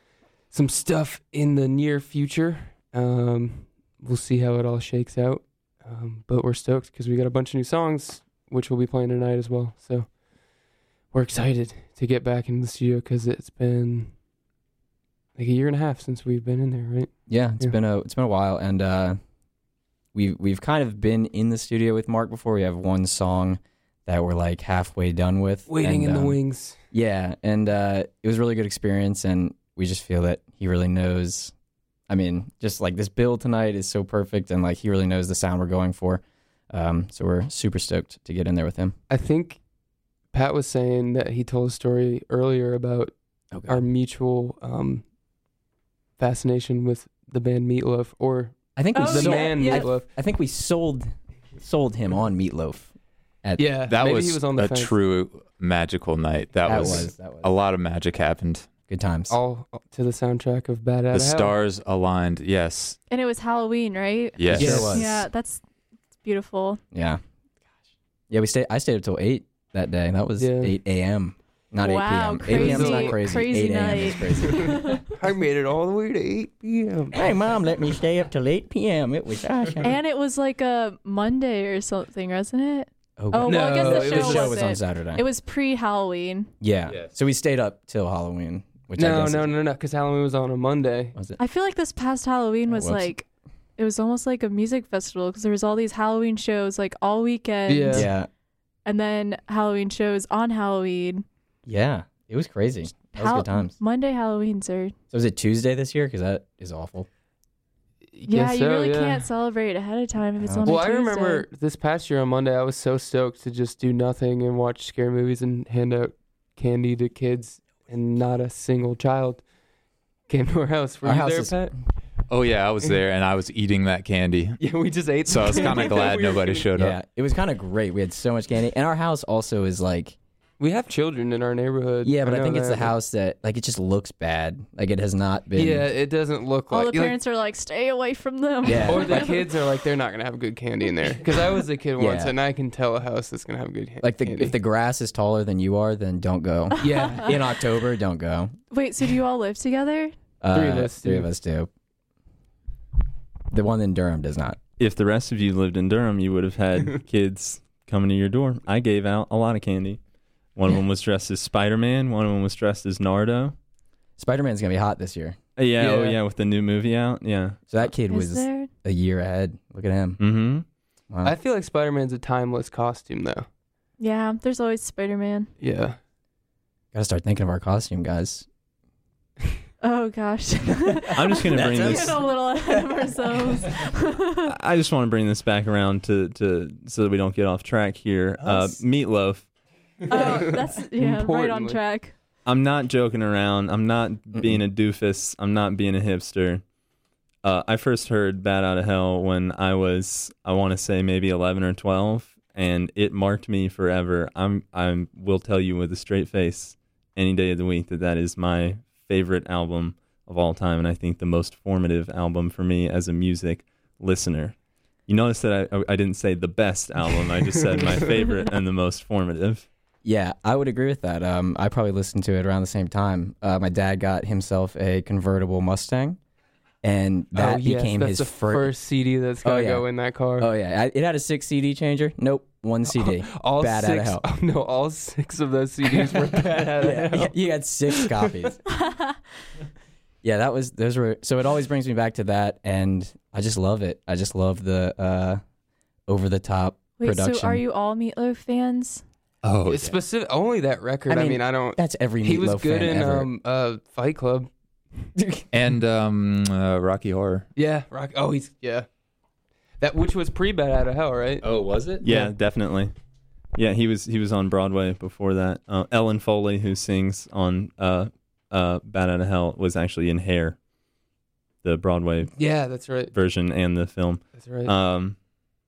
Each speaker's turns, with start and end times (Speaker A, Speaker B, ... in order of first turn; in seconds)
Speaker A: 0.5-14.2, 15.3-17.8, 25.7-26.9, 39.1-45.1, 46.2-50.1, 53.6-55.0, 56.7-57.1, 59.3-61.6, 64.5-65.2, 70.4-70.8, 72.4-77.2, 83.3-84.8, 88.9-91.2, 97.7-98.1, 108.1-109.3, 110.6-121.8, 124.6-126.7, 130.6-133.0, 135.6-137.2, 138.7-144.6, 146.8-147.6, 150.5-151.3, 165.7-166.2, 171.2-173.5, 175.6-176.0, 181.5-183.1, 190.0-191.8, 227.3-230.5, 232.8-238.6, 249.7-254.5, 257.6-258.9, 259.8-261.5, 262.0-262.4, 272.4-273.1, 274.3-274.7
Speaker B: 17.2-19.2, 20.1-31.6, 32.1-39.0, 43.5-43.9, 48.8-54.1, 56.6-57.5, 58.9-59.4, 64.5-65.3, 66.9-67.2, 68.3-75.0, 77.1-79.9, 83.2-85.3, 86.6-89.6, 91.2-91.4, 92.7-93.1, 97.9-98.3, 101.7-103.8, 105.1-107.1, 110.4-110.8, 121.0-121.9, 126.7-130.2, 132.0-136.1, 138.7-139.4, 141.9-142.4, 144.0-148.6, 150.4-151.7, 153.5-154.6, 164.2-165.4, 167.7-170.3, 171.1-171.4, 176.9-178.5, 188.4-188.8, 194.3-194.6, 220.0-226.2, 226.8-234.2, 236.8-238.6, 240.2-245.4, 246.1-247.6, 251.0-253.3, 255.2-255.5, 261.4-262.2
Speaker C: 48.9-49.9, 63.1-65.7, 66.2-66.8, 71.8-75.0, 79.8-86.5, 91.4-98.2, 98.9-101.2, 103.2-104.9, 108.3-111.5, 136.7-139.5, 146.8-147.4, 148.7-150.1, 168.1-168.7, 174.0-175.5, 179.8-184.5, 190.1-192.2, 247.0-249.0
Speaker D: 53.8-58.8, 61.1-63.0, 64.4-64.8, 122.3-127.0, 249.4-249.9, 255.5-257.5
Speaker E: 154.8-160.0, 160.5-163.6, 165.6-167.9, 170.2-170.7, 181.2-182.2, 184.5-189.6, 192.4-196.7, 197.4-219.7, 262.0-262.9, 263.5-270.6, 271.6-275.2